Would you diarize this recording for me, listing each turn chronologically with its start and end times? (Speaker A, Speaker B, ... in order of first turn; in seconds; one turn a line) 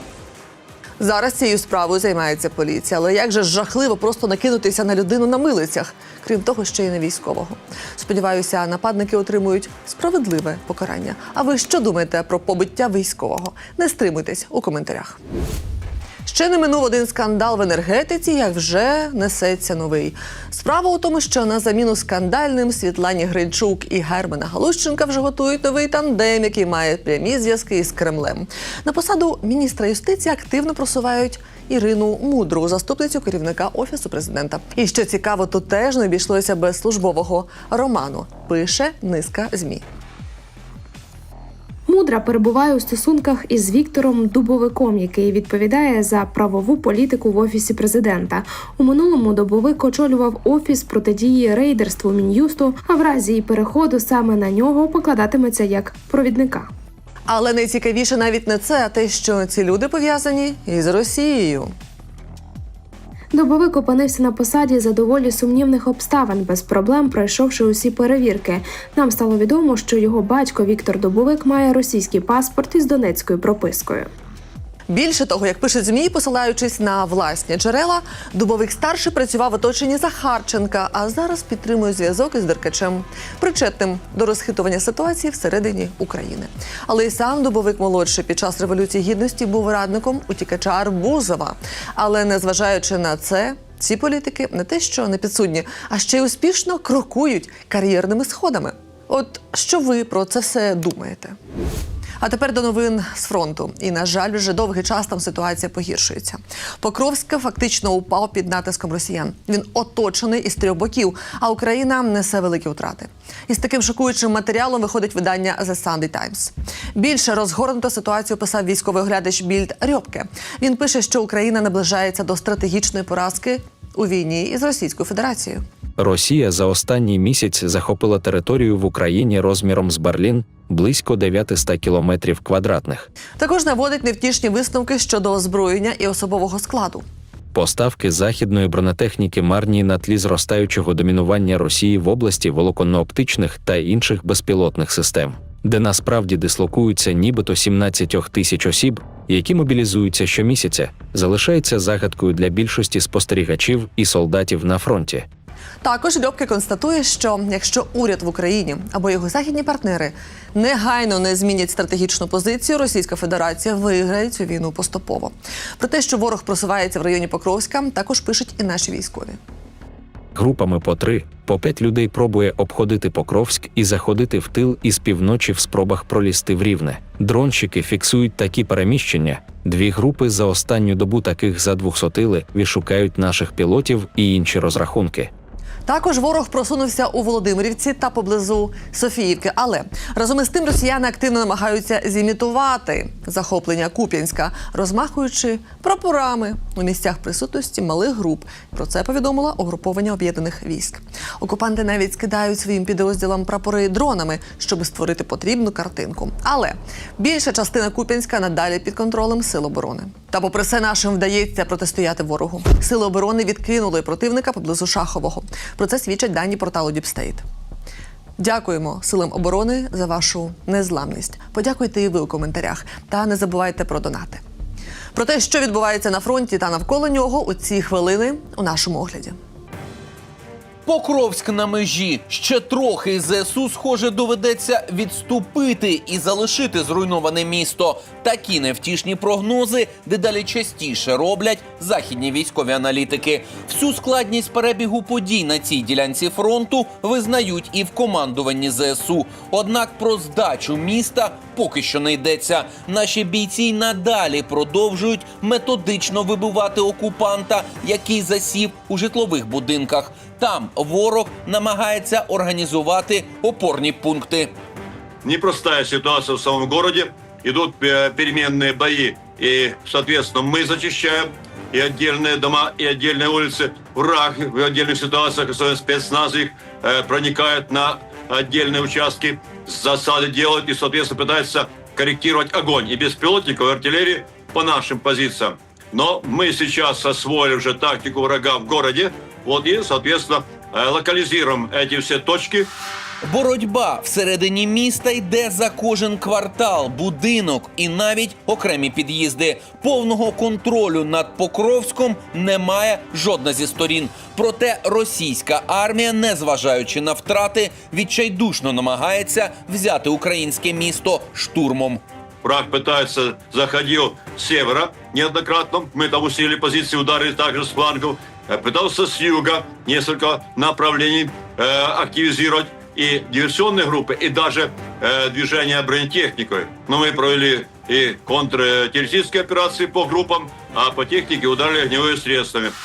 Speaker A: 1.0-15.2
Speaker A: 16.2-39.8
Speaker B: 41.9-56.7
Speaker A: 57.3-61.7
Speaker B: 63.3-74.1
Speaker A: 74.9-101.3
Speaker A: 102.2-125.6
Speaker C: 126.0-133.1
Speaker A: 133.4-137.0
Speaker C: 137.5-155.2
Speaker A: 155.8-169.4
Speaker C: 170.3-185.3
Speaker A: 185.8-217.4
Speaker A: 218.4-224.4
Speaker A: 225.1-229.4
Speaker D: 230.8-264.5
Speaker E: 265.2-292.7
Speaker D: 293.2-312.0
Speaker E: 312.4-332.7